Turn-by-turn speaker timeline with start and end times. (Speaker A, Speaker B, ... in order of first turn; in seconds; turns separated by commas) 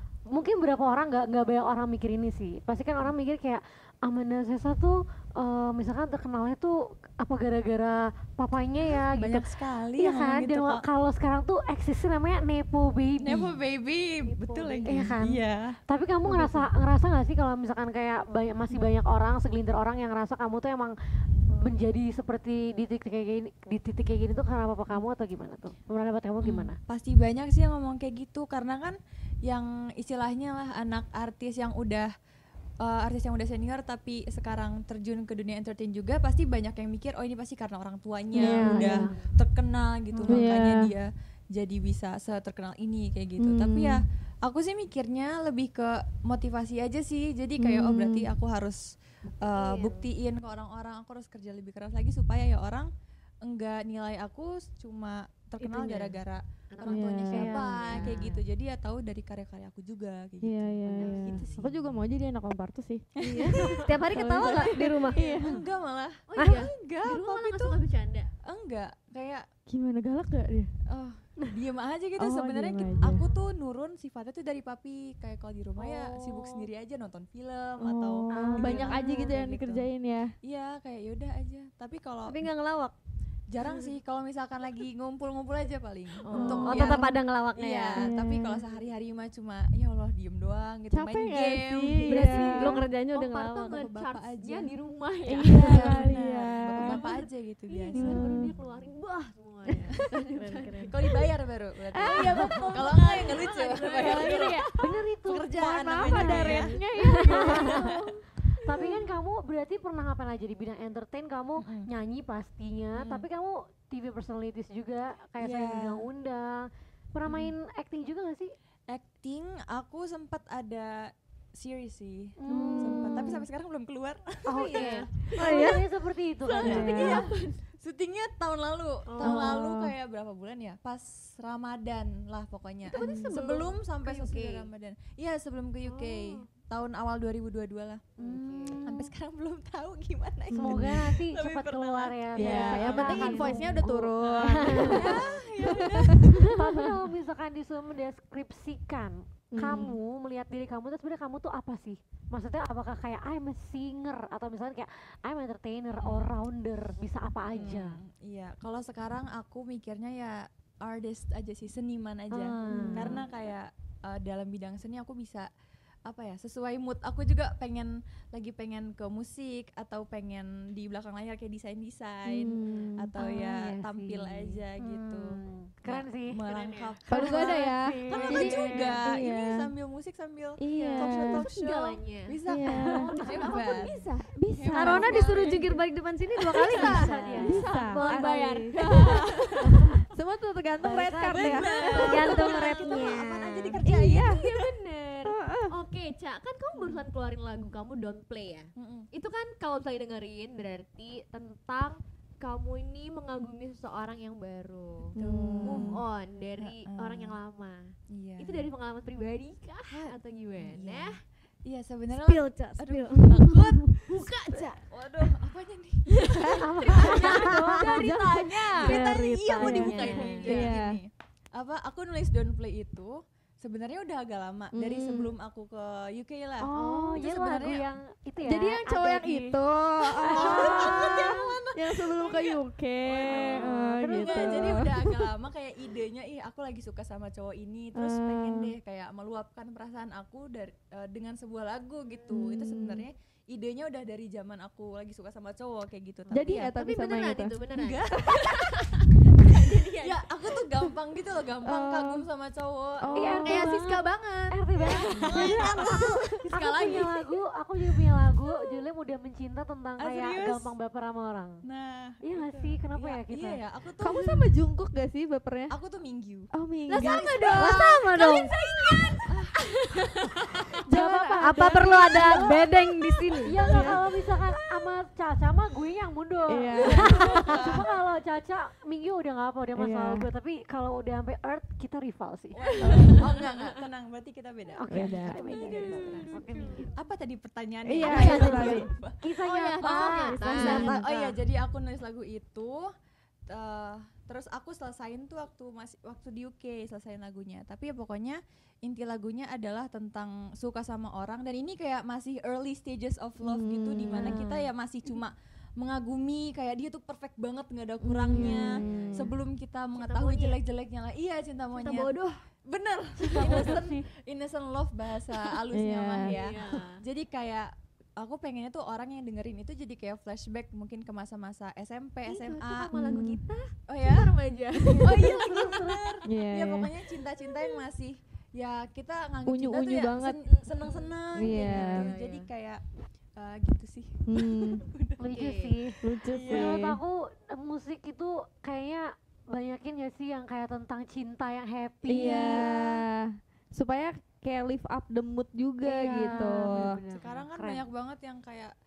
Speaker A: 0.3-13.5, Speaker B: 8.8-10.8, Speaker B: 13.2-15.8, Speaker A: 14.8-20.9, Speaker A: 21.6-26.8, Speaker B: 26.4-32.1, Speaker B: 32.8-52.9, Speaker A: 38.3-39.1, Speaker C: 38.4-39.0, Speaker A: 40.1-40.4, Speaker C: 40.3-40.9, Speaker C: 43.4-44.0, Speaker C: 47.6-48.3, Speaker D: 49.5-50.1, Speaker B: 53.4-61.9, Speaker D: 55.6-56.1, Speaker D: 56.7-58.4, Speaker C: 56.8-57.5, Speaker A: 57.3-58.1, Speaker C: 60.4-65.6, Speaker D: 60.9-61.5, Speaker B: 63.2-67.8, Speaker E: 63.4-65.2, Speaker D: 65.0-65.4, Speaker D: 66.3-68.3, Speaker B: 68.5-69.5, Speaker C: 69.7-70.7, Speaker B: 70.9-79.8, Speaker C: 72.2-73.2, Speaker C: 77.8-80.3, Speaker A: 78.3-79.0, Speaker B: 80.4-82.5, Speaker E: 82.3-82.9, Speaker B: 83.5-92.6, Speaker D: 86.3-87.0, Speaker A: 86.3-86.8, Speaker E: 86.4-88.0, Speaker C: 88.0-88.6, Speaker C: 90.9-92.8, Speaker D: 92.1-96.1, Speaker E: 92.2-93.8, Speaker B: 93.6-94.7, Speaker C: 95.3-97.0, Speaker B: 95.4-98.2, Speaker D: 96.8-100.9, Speaker C: 97.9-98.5, Speaker E: 100.4-100.9, Speaker B: 100.8-104.7, Speaker C: 101.9-103.0, Speaker D: 102.0-104.7, Speaker C: 103.8-104.7, Speaker A: 104.8-106.7, Speaker B: 105.2-106.7, Speaker C: 105.5-108.0, Speaker D: 107.0-108.1, Speaker A: 107.4-107.7, Speaker B: 107.4-108.1, Speaker A: 108.6-118.5, Speaker B: 111.6-111.9, Speaker B: 112.9-113.2, Speaker B: 115.4-116.1, Speaker B: 117.2-117.5, Speaker B: 118.9-125.8, Speaker A: 122.4-123.4, Speaker C: 122.5-122.9, Speaker A: 124.5-127.2, Speaker D: 124.6-125.6, Speaker C: 125.4-125.7, Speaker B: 126.5-138.1, Speaker D: 126.5-127.5, Speaker C: 126.6-127.2, Speaker C: 129.2-129.8, Speaker D: 132.9-134.7, Speaker C: 133.0-133.3, Speaker D: 135.9-136.3, Speaker D: 138.2-138.9, Speaker A: 138.3-138.8, Speaker B: 138.8-143.7, Speaker C: 140.5-140.9, Speaker A: 140.5-145.2, Speaker C: 142.3-146.7, Speaker D: 142.9-143.5, Speaker D: 144.8-145.4, Speaker B: 144.9-146.5, Speaker A: 146.4-158.0, Speaker C: 149.5-149.9, Speaker B: 156.0-156.3, Speaker B: 157.5-165.5, Speaker A: 162.3-163.2, Speaker C: 162.7-163.1, Speaker B: 166.1-184.0, Speaker C: 172.3-173.1, Speaker A: 173.2-176.4, Speaker D: 176.4-177.0, Speaker C: 177.1-179.7, Speaker A: 177.1-178.9, Speaker C: 180.6-181.5, Speaker D: 180.9-182.4, Speaker C: 182.5-183.6, Speaker D: 182.9-184.2, Speaker C: 184.3-185.2, Speaker B: 184.5-185.8, Speaker E: 184.7-187.2, Speaker D: 184.9-185.6, Speaker D: 186.5-189.8, Speaker B: 186.5-187.4, Speaker A: 186.7-187.7, Speaker C: 187.4-189.1, Speaker E: 187.8-188.8, Speaker B: 188.9-189.8, Speaker C: 190.1-192.6, Speaker A: 190.8-191.8, Speaker B: 191.2-194.6, Speaker E: 191.9-193.7, Speaker D: 191.9-193.1, Speaker C: 193.8-194.5, Speaker D: 194.1-211.2, Speaker C: 195.2-195.8, Speaker B: 196.7-197.0, Speaker B: 198.8-199.1, Speaker C: 205.1-205.9, Speaker B: 205.2-206.0, Speaker B: 206.6-207.4, Speaker B: 208.1-208.7, Speaker B: 209.9-227.9, Speaker E: 212.2-213.9, Speaker D: 214.0-214.8, Speaker D: 216.2-220.7, Speaker C: 216.4-221.0, Speaker A: 216.6-217.9, Speaker C: 224.7-225.3, Speaker A: 226.6-229.6, Speaker C: 228.4-235.3, Speaker A: 230.2-231.2, Speaker B: 230.2-246.7, Speaker A: 233.3-234.8, Speaker C: 237.9-238.7, Speaker C: 242.3-243.1, Speaker C: 246.3-247.6, Speaker D: 246.3-250.2, Speaker B: 247.7-248.9, Speaker B: 250.0-253.4, Speaker C: 251.6-252.2, Speaker C: 253.0-253.8, Speaker A: 253.1-261.6, Speaker D: 253.4-257.0, Speaker B: 254.9-257.2, Speaker B: 260.0-260.7, Speaker B: 261.6-264.5, Speaker A: 262.2-263.6, Speaker C: 264.0-265.7, Speaker B: 265.7-266.5, Speaker C: 266.5-267.8, Speaker D: 266.9-270.1, Speaker B: 267.0-267.8, Speaker E: 267.5-268.5, Speaker B: 269.2-270.7, Speaker C: 270.9-272.7, Speaker A: 270.9-272.5, Speaker E: 271.4-273.5, Speaker D: 271.8-273.9, Speaker A: 273.4-283.2, Speaker C: 273.6-274.0, Speaker C: 276.5-277.6, Speaker B: 276.8-277.9, Speaker C: 279.8-280.2, Speaker D: 282.6-283.7, Speaker B: 282.6-289.2, Speaker A: 284.7-286.9, Speaker C: 284.9-285.8, Speaker D: 286.1-286.8, Speaker C: 287.9-288.9, Speaker D: 288.0-288.8, Speaker A: 288.0-291.0, Speaker D: 289.4-291.3, Speaker B: 289.8-292.9, Speaker C: 290.3-291.1, Speaker B: 293.5-312.1, Speaker C: 303.4-304.4, Speaker A: 304.1-304.6, Speaker C: 308.0-309.3, Speaker A: 308.4-309.1, Speaker D: 308.4-309.1, Speaker D: 309.9-310.6, Speaker D: 311.8-312.4, Speaker B: 312.7-323.2, Speaker A: 313.3-314.0, Speaker D: 313.4-313.9, Speaker C: 315.7-316.4, Speaker D: 316.3-317.0, Speaker D: 322.3-325.9, Speaker C: 322.9-323.4, Speaker B: 323.9-324.3, Speaker B: 325.0-332.8, Speaker A: 325.1-326.1, Speaker C: 326.2-326.9, Speaker C: 329.4-330.4, Speaker D: 330.5-332.5, Speaker C: 331.4-332.1, Speaker B: 333.4-335.2, Speaker C: 334.3-334.8, Speaker A: 335.2-342.7, Speaker D: 335.3-335.8, Speaker C: 336.0-337.0, Speaker B: 336.3-336.8, Speaker B: 342.0-342.9, Speaker C: 342.1-346.9, Speaker A: 345.9-347.9, Speaker B: 345.9-348.7